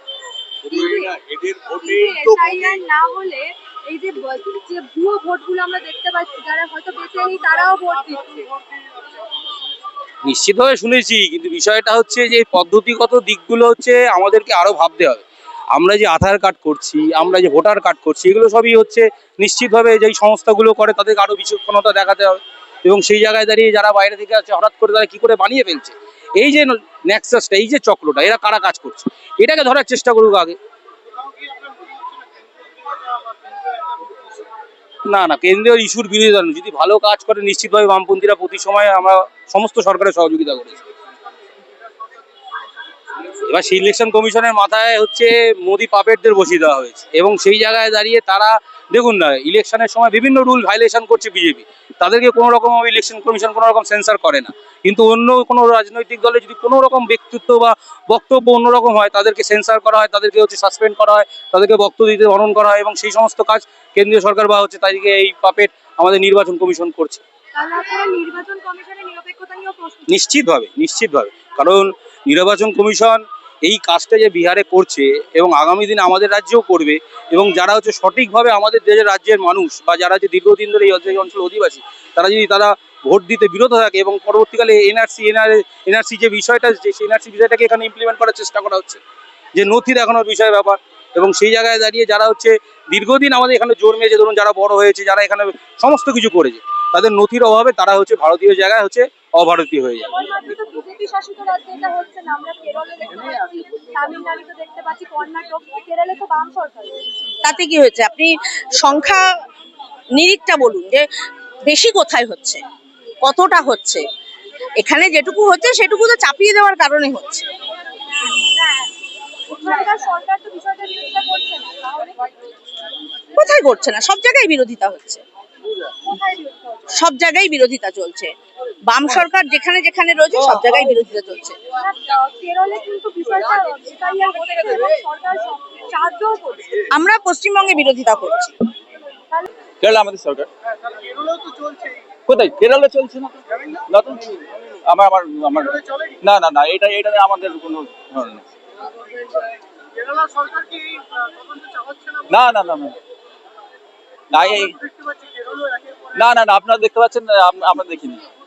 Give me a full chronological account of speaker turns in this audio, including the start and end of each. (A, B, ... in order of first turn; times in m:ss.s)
0:00.7-0:08.5 A
0:10.2-0:15.2 B
0:15.7-0:30.6 B
0:35.1-0:40.8 B
0:43.4-1:07.2 B
1:07.6-1:10.2 A
1:10.1-1:29.0 B
1:29.6-1:40.1 B
1:40.1-1:47.0 A
1:47.4-1:49.3 C
1:50.1-1:51.1 C
1:51.6-1:52.6 C
1:53.2-1:54.1 C
1:54.8-1:57.5 C
1:58.2-1:58.9 A
1:59.5-2:02.3 A
2:03.4-2:05.2 C
2:06.1-2:06.8 A
2:06.9-2:08.3 C
2:08.9-2:11.6 C
2:11.7-2:16.7 A
2:16.9-2:18.6 C
2:19.8-2:20.5 D
2:22.3-2:28.4 D
2:32.3-2:33.0 D
2:34.3-2:34.8 D
2:36.2-2:38.2 D